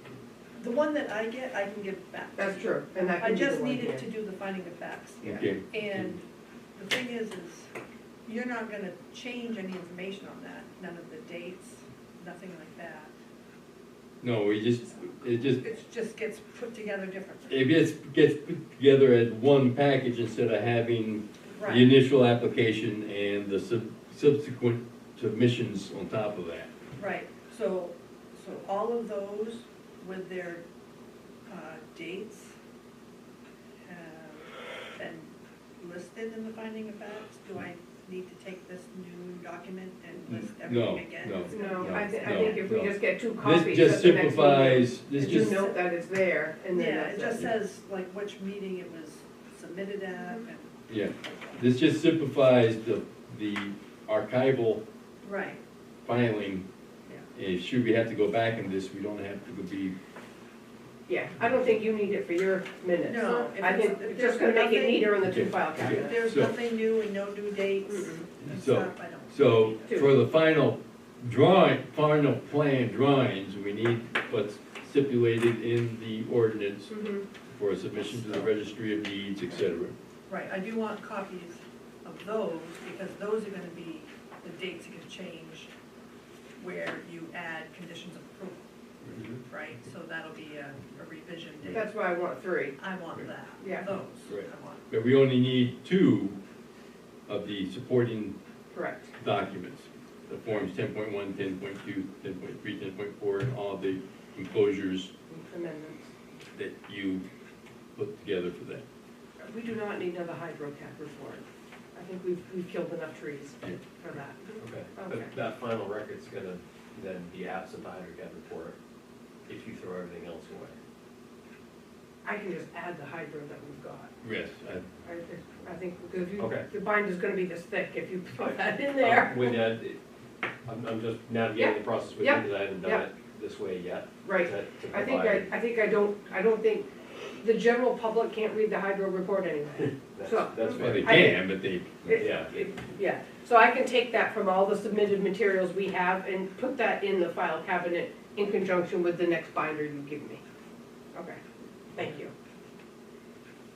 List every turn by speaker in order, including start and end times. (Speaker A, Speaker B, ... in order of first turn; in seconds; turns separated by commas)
Speaker A: 0.6-6.2, Speaker B: 2.4-4.1, Speaker B: 5.2-5.5, Speaker C: 5.2-6.2, Speaker A: 6.8-7.7, Speaker A: 8.2-13.1, Speaker C: 14.2-15.6, Speaker A: 15.5-17.6, Speaker C: 17.5-26.7, Speaker A: 21.6-21.9, Speaker A: 27.0-30.6, Speaker A: 31.5-32.5, Speaker A: 33.8-42.6, Speaker C: 40.3-45.7, Speaker B: 41.5-47.5, Speaker A: 45.4-45.7, Speaker A: 46.7-50.7, Speaker B: 50.1-50.5, Speaker C: 50.9-54.8, Speaker A: 55.2-55.6, Speaker C: 56.0-56.7, Speaker C: 57.4-60.0, Speaker B: 61.1-66.3, Speaker A: 63.0-65.1, Speaker C: 65.2-66.7, Speaker A: 65.8-69.8, Speaker B: 67.9-68.3, Speaker C: 68.4-76.9, Speaker B: 76.9-77.3, Speaker C: 77.5-80.0, Speaker A: 80.3-85.7, Speaker A: 86.6-88.6, Speaker C: 89.0-89.3, Speaker A: 89.4-91.9, Speaker B: 91.7-92.8, Speaker A: 92.8-94.8, Speaker B: 93.6-93.9, Speaker C: 94.3-96.4, Speaker C: 97.3-98.3, Speaker B: 98.7-99.1, Speaker C: 99.2-105.1, Speaker B: 105.3-106.1, Speaker C: 106.5-107.2, Speaker C: 108.0-108.8, Speaker B: 109.4-115.3, Speaker D: 114.6-118.8, Speaker D: 119.5-120.8, Speaker B: 122.2-124.1, Speaker C: 124.2-124.8, Speaker B: 125.0-129.7, Speaker D: 126.4-126.7, Speaker D: 129.0-130.0, Speaker D: 130.7-135.4, Speaker B: 131.5-133.1, Speaker B: 134.2-136.9, Speaker B: 137.4-141.4, Speaker D: 140.2-140.9, Speaker C: 140.7-142.4, Speaker A: 141.0-141.2, Speaker B: 142.0-150.4, Speaker B: 151.1-151.4, Speaker B: 151.9-152.3